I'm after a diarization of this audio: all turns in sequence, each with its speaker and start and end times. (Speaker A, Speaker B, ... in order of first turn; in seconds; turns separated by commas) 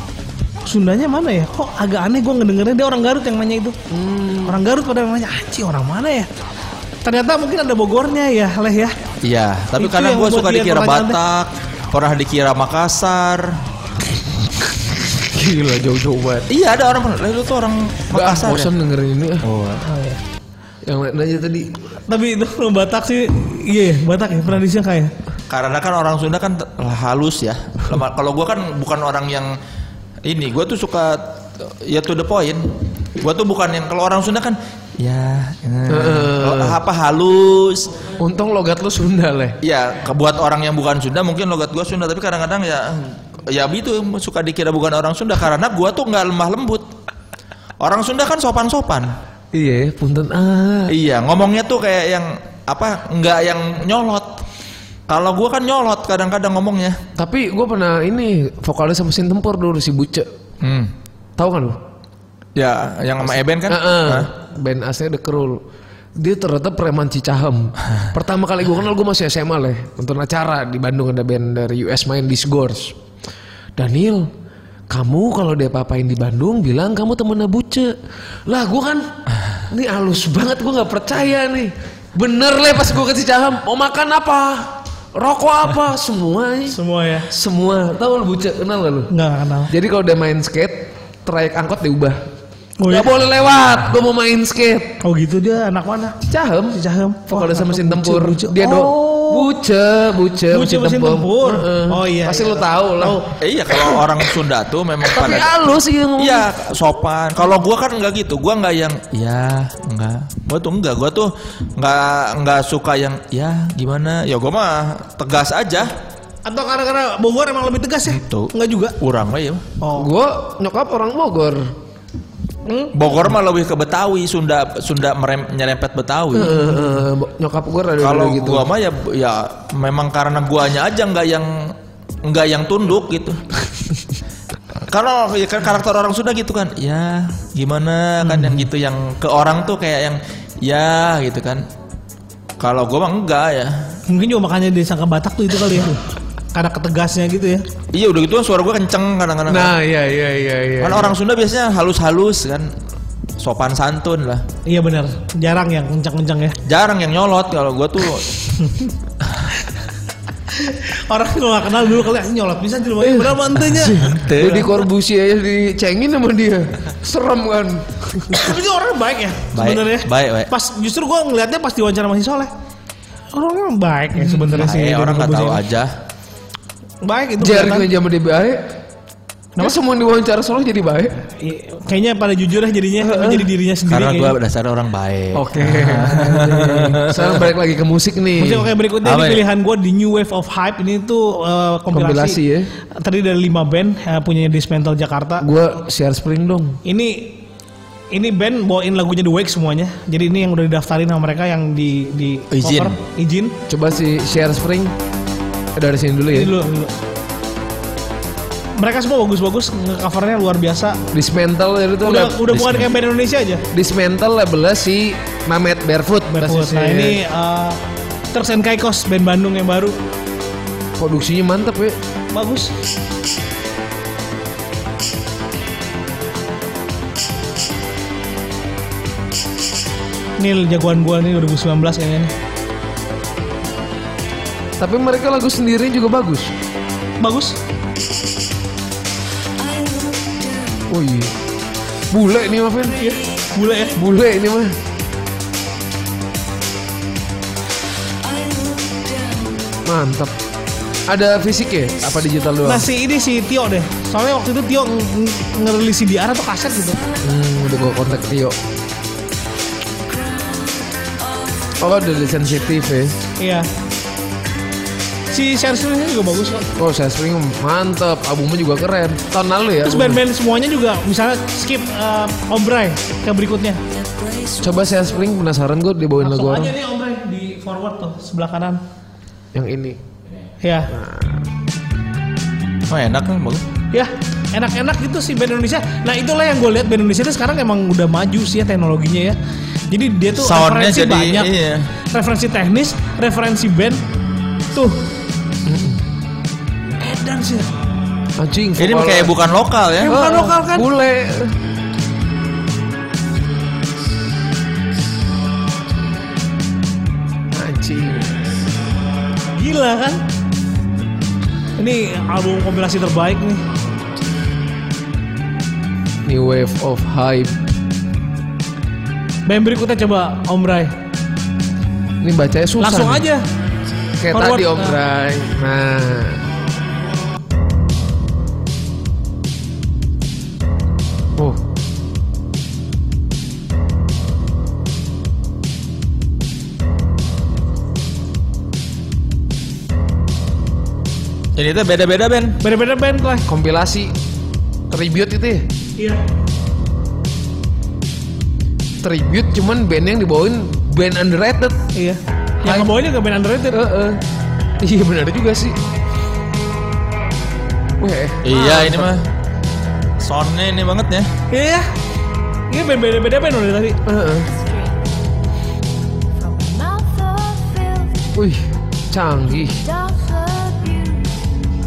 Speaker A: 0.7-3.8, Speaker B: 3.9-4.6, Speaker A: 4.5-6.3, Speaker A: 7.0-8.9, Speaker C: 9.2-13.5, Speaker A: 9.8-11.2, Speaker B: 15.1-16.5, Speaker C: 16.5-18.7, Speaker B: 18.1-19.4, Speaker C: 19.4-19.8, Speaker A: 19.8-20.2, Speaker B: 20.8-21.7, Speaker A: 22.1-25.1, Speaker C: 25.5-29.6, Speaker C: 30.2-32.6, Speaker C: 33.2-37.9, Speaker B: 35.9-36.8, Speaker B: 38.2-39.5, Speaker C: 39.6-46.9, Speaker C: 47.8-49.1, Speaker B: 49.5-50.9, Speaker C: 50.9-54.4, Speaker C: 55.1-57.0, Speaker B: 57.1-60.3, Speaker C: 60.6-60.9, Speaker B: 61.4-61.8, Speaker C: 62.5-64.3, Speaker B: 63.6-65.6, Speaker B: 66.2-73.0, Speaker B: 73.8-74.3, Speaker B: 74.9-77.9, Speaker B: 78.5-79.2, Speaker B: 79.7-89.1, Speaker A: 86.7-87.3, Speaker A: 89.1-89.7, Speaker B: 89.7-92.2, Speaker A: 92.8-93.1, Speaker B: 92.8-95.0, Speaker A: 95.0-96.2, Speaker B: 96.2-104.2, Speaker A: 96.7-99.5, Speaker A: 100.5-103.2, Speaker C: 103.4-105.6, Speaker B: 105.0-106.5, Speaker C: 106.2-115.9, Speaker A: 116.5-118.9, Speaker C: 118.0-119.6, Speaker A: 119.8-120.1, Speaker B: 120.0-121.7, Speaker A: 122.7-122.9, Speaker C: 122.9-126.6, Speaker B: 126.3-128.7, Speaker C: 128.0-133.4, Speaker C: 134.9-141.7, Speaker B: 138.3-138.6, Speaker C: 142.6-143.8, Speaker A: 144.1-146.0, Speaker A: 146.5-147.6, Speaker C: 147.9-149.7, Speaker B: 149.5-151.2, Speaker C: 150.8-152.7, Speaker C: 153.4-154.4, Speaker A: 154.7-156.6, Speaker C: 156.7-158.4, Speaker A: 160.5-164.0, Speaker B: 163.0-168.5, Speaker C: 164.0-164.8, Speaker A: 168.3-172.5, Speaker C: 169.5-170.5, Speaker A: 173.3-175.6, Speaker B: 174.2-174.6, Speaker C: 174.6-175.9, Speaker A: 177.0-177.9, Speaker B: 177.4-178.7, Speaker B: 179.6-181.2, Speaker A: 181.3-184.3, Speaker B: 183.0-183.5, Speaker C: 183.9-187.5, Speaker B: 185.3-188.7, Speaker A: 188.4-192.4, Speaker C: 189.0-189.4, Speaker B: 191.9-192.7, Speaker A: 193.0-195.4, Speaker B: 195.4-196.8, Speaker A: 196.8-197.4, Speaker A: 198.1-203.5, Speaker C: 202.5-202.9, Speaker B: 203.7-204.9, Speaker B: 205.7-206.5, Speaker A: 206.3-206.9, Speaker A: 208.8-211.0, Speaker B: 211.1-212.4, Speaker A: 212.0-213.6, Speaker C: 212.5-212.9, Speaker B: 213.7-217.2, Speaker A: 216.3-217.8, Speaker A: 218.3-219.9, Speaker B: 221.0-222.0, Speaker A: 222.3-222.7, Speaker A: 230.4-232.3, Speaker B: 234.8-236.5, Speaker A: 237.2-237.5, Speaker D: 239.5-240.9, Speaker B: 240.9-241.3, Speaker B: 242.1-243.0, Speaker A: 242.9-243.9, Speaker B: 243.9-244.7, Speaker D: 248.2-249.8, Speaker B: 249.8-250.3, Speaker B: 251.1-252.8, Speaker A: 252.6-257.0, Speaker B: 257.2-258.6, Speaker B: 261.8-263.1, Speaker A: 263.4-263.7, Speaker A: 265.3-266.6, Speaker B: 266.7-270.2, Speaker A: 269.8-273.8, Speaker D: 274.2-274.6, Speaker B: 274.6-276.7, Speaker A: 276.2-278.8, Speaker B: 279.5-280.0, Speaker A: 280.6-280.9, Speaker B: 280.9-281.4, Speaker C: 282.9-283.6, Speaker A: 283.9-289.4, Speaker A: 289.9-291.5, Speaker C: 290.4-291.9, Speaker A: 292.1-294.0, Speaker A: 294.7-295.0, Speaker B: 295.6-296.0, Speaker A: 297.0-297.7, Speaker B: 298.4-299.3, Speaker C: 298.8-300.1, Speaker B: 300.0-301.5, Speaker A: 300.0-300.8, Speaker B: 307.5-308.4, Speaker A: 309.6-310.2, Speaker A: 311.8-313.6, Speaker B: 316.2-317.6, Speaker A: 319.5-320.9, Speaker B: 322.2-323.2, Speaker A: 322.8-323.4, Speaker B: 324.2-326.4, Speaker A: 324.3-325.0, Speaker B: 331.4-331.6, Speaker C: 341.6-342.6, Speaker A: 342.6-343.4, Speaker B: 343.5-344.1, Speaker B: 344.9-345.7, Speaker B: 349.0-351.8, Speaker A: 351.9-353.8, Speaker B: 352.6-352.9, Speaker B: 353.7-354.2, Speaker B: 354.8-355.8, Speaker B: 358.0-359.1, Speaker C: 358.4-359.2, Speaker C: 360.2-361.3, Speaker A: 361.5-361.9, Speaker A: 362.7-364.0, Speaker B: 364.1-364.5, Speaker D: 364.4-365.0, Speaker D: 366.4-368.3, Speaker B: 368.4-369.8, Speaker D: 369.6-371.3